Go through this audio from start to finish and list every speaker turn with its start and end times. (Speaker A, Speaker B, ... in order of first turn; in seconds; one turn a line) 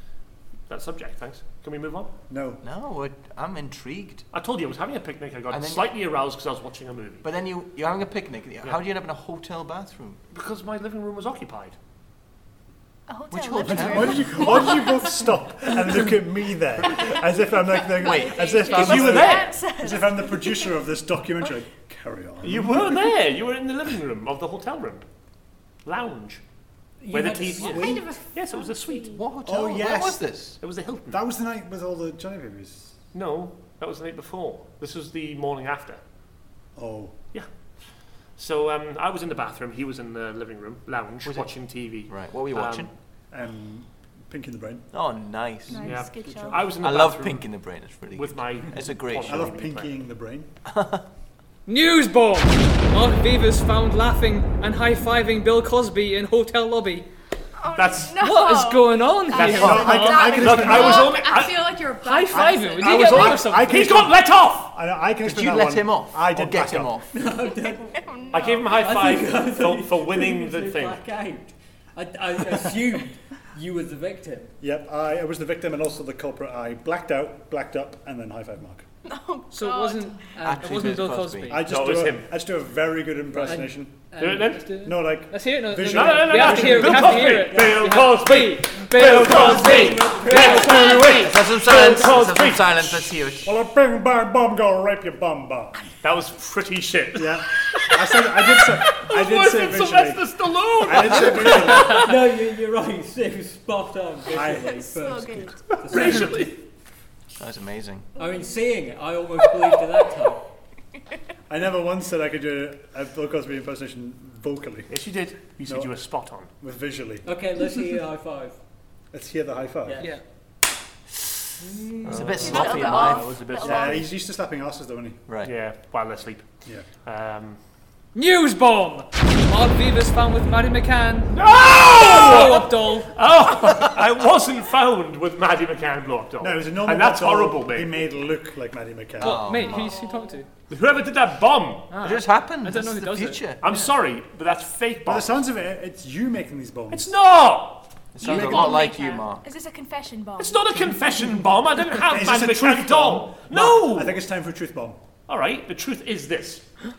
Speaker A: 0.7-2.1
Speaker B: 2.3-2.6
Speaker C: 2.6-4.2
Speaker A: 4.3-7.2
Speaker C: 5.5-5.9
Speaker C: 7.2-10.2
Speaker A: 10.3-11.8
Speaker D: 13.1-15.1
Speaker C: 13.3-14.7
Speaker B: 13.6-22.9
Speaker E: 17.7-19.3
Speaker C: 18.0-18.6
Speaker A: 18.7-19.6
Speaker D: 18.7-20.8
Speaker A: 22.4-25.0
Speaker A: 25.8-26.4
Speaker F: 27.0-28.1
Speaker A: 27.1-29.1
Speaker E: 27.6-29.2
Speaker C: 29.1-30.6
Speaker B: 29.4-30.3
Speaker A: 30.6-31.2
Speaker B: 31.1-32.9
Speaker A: 33.1-36.0
Speaker B: 36.8-37.1
Speaker A: 38.4-42.9
Speaker C: 42.1-42.9
Speaker B: 43.3-44.8
Speaker C: 44.9-46.1
Speaker D: 45.7-46.7
Speaker A: 45.8-47.5
Speaker C: 46.6-49.5
Speaker A: 48.1-49.9
Speaker B: 49.3-50.5
Speaker C: 50.6-51.0
Speaker G: 51.6-57.1
Speaker D: 57.5-61.2
Speaker A: 57.7-58.3
Speaker G: 58.2-60.6
Speaker A: 59.3-61.9
Speaker B: 59.4-61.1
Speaker E: 60.1-63.1
Speaker G: 62.0-64.1
Speaker B: 62.3-67.0
Speaker A: 62.8-64.7
Speaker C: 65.2-67.2
Speaker F: 67.1-74.5
Speaker D: 68.0-68.6
Speaker A: 68.3-71.0
Speaker B: 74.6-78.8
Speaker D: 79.0-80.2
Speaker G: 79.5-81.7
Speaker F: 80.3-80.6
Speaker C: 80.4-81.6
Speaker B: 81.5-84.0
Speaker A: 81.7-82.3
Speaker F: 83.4-84.5
Speaker A: 84.2-84.7
Speaker G: 84.4-91.1
Speaker B: 84.8-88.2
Speaker A: 85.9-93.1
Speaker B: 88.9-91.9
Speaker F: 89.3-91.0
Speaker C: 91.2-93.5
Speaker B: 93.4-95.8
Speaker A: 96.0-102.0
Speaker B: 97.1-102.0
Speaker F: 101.5-106.6
Speaker B: 104.3-104.8
Speaker D: 104.3-106.1
Speaker A: 105.9-106.5
Speaker C: 107.4-108.1
Speaker F: 108.2-110.4
Speaker D: 108.2-108.5
Speaker B: 111.5-114.9
Speaker A: 114.9-116.5
Speaker B: 115.7-115.9
Speaker B: 116.6-117.2
Speaker F: 117.2-118.6
Speaker B: 119.1-120.0
Speaker F: 119.8-120.2
Speaker F: 121.6-122.3
Speaker A: 122.0-124.0
Speaker C: 122.0-123.4
Speaker D: 122.4-124.1
Speaker B: 123.6-125.2
Speaker C: 125.3-125.5
Speaker A: 125.4-126.5
Speaker A: 127.0-127.6
Speaker G: 128.1-133.1
Speaker A: 131.3-138.0
Speaker C: 133.6-134.0
Speaker B: 136.4-139.4
Speaker G: 139.2-140.5
Speaker C: 139.2-139.9
Speaker D: 139.7-140.2
Speaker A: 140.7-141.9
Speaker G: 141.9-143.9
Speaker C: 142.0-143.6
Speaker A: 143.6-145.4
Speaker B: 145.0-147.1
Speaker A: 146.9-148.5
Speaker C: 148.1-149.4
Speaker E: 148.2-149.2
Speaker D: 148.2-150.9
Speaker A: 150.4-154.2
Speaker B: 152.0-155.0
Speaker A: 155.3-156.7